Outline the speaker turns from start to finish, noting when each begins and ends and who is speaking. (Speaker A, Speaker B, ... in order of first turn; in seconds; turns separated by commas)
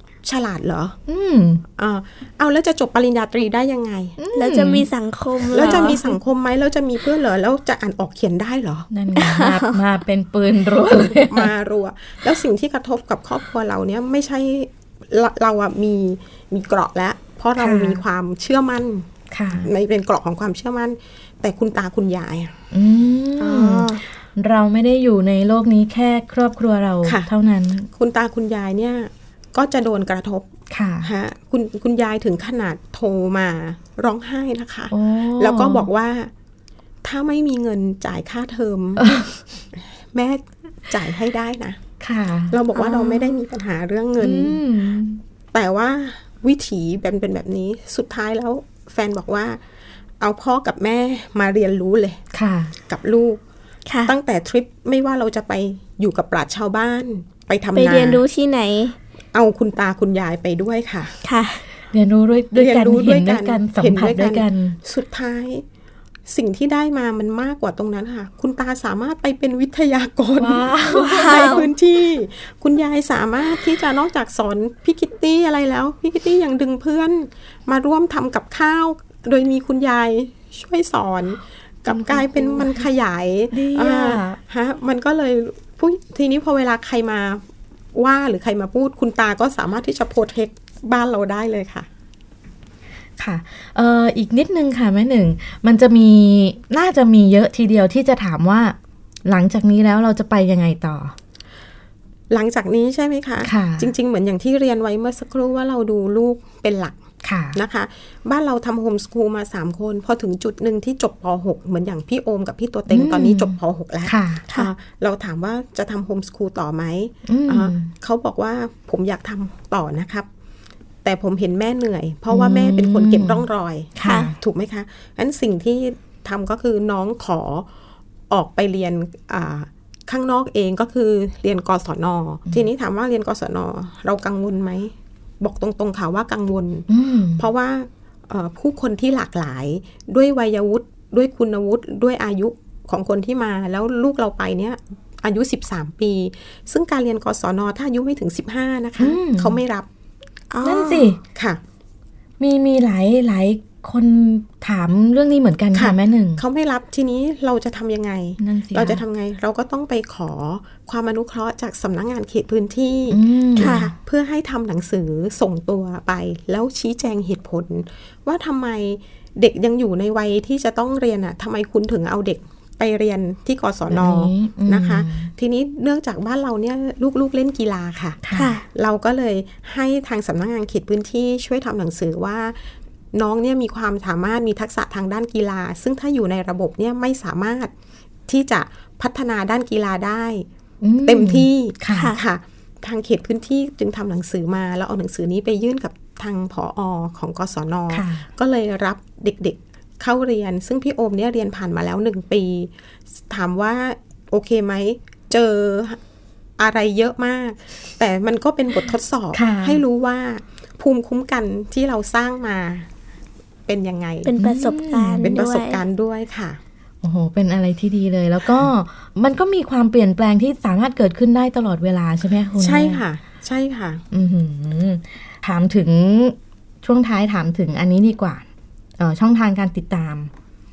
Speaker A: 0.2-1.0, Speaker B: 1.1-1.6, Speaker A: 1.8-4.2, Speaker B: 4.2-4.9, Speaker C: 4.3-6.0, Speaker A: 5.5-8.9, Speaker B: 5.5-6.1, Speaker B: 8.9-11.5, Speaker C: 9.2-9.8, Speaker A: 10.8-22.6, Speaker B: 17.6-18.0, Speaker B: 19.3-19.7, Speaker B: 22.7-27.9, Speaker C: 23.4-24.0, Speaker A: 27.0-27.3, Speaker A: 27.9-30.5, Speaker B: 30.7-31.1, Speaker A: 31.0-36.3, Speaker B: 34.9-35.9, Speaker A: 37.0-39.1, Speaker B: 39.0-39.3, Speaker A: 39.7-41.8, Speaker B: 42.0-42.6, Speaker A: 42.5-44.6, Speaker B: 44.2-45.2, Speaker A: 45.5-49.6, Speaker A: 50.2-52.2, Speaker B: 52.3-52.7, Speaker A: 52.9-53.4, Speaker C: 53.9-54.1, Speaker A: 54.0-58.2, Speaker C: 57.7-59.0, Speaker A: 59.3-61.1, Speaker C: 61.2-61.6, Speaker B: 61.9-64.8, Speaker A: 62.5-65.6, Speaker A: 66.3-91.9, Speaker B: 70.4-71.6, Speaker C: 71.0-71.7, Speaker B: 81.9-82.8, Speaker B: 83.5-84.4, Speaker B: 93.2-101.1, Speaker A: 102.3-107.0, Speaker B: 103.4-103.9, Speaker B: 107.2-107.6, Speaker A: 107.5-120.3, Speaker B: 112.9-114.4, Speaker B: 117.2-117.9, Speaker A: 121.0-127.7, Speaker B: 122.3-124.3, Speaker C: 124.0-124.3, Speaker A: 128.3-136.8, Speaker B: 136.9-137.4, Speaker A: 137.4-149.9, Speaker B: 149.0-149.6, Speaker C: 150.5-151.1, Speaker B: 150.6-151.2, Speaker A: 151.3-151.6, Speaker B: 152.4-156.4, Speaker A: 155.7-182.6, Speaker B: 158.4-159.0, Speaker B: 163.1-163.8, Speaker C: 163.6-163.9, Speaker B: 173.9-175.3, Speaker B: 178.2-178.5, Speaker C: 178.3-178.6, Speaker A: 183.1-187.7, Speaker A: 188.3-190.5, Speaker B: 190.8-192.1, Speaker A: 191.0-206.0, Speaker C: 191.9-192.2, Speaker B: 197.9-198.3, Speaker A: 206.6-212.9, Speaker B: 209.3-209.8, Speaker A: 213.7-214.3, Speaker C: 214.2-215.8, Speaker B: 214.4-215.3, Speaker A: 215.2-216.6, Speaker B: 217.0-223.0, Speaker A: 222.6-224.0, Speaker B: 224.1-228.4, Speaker B: 229.0-230.3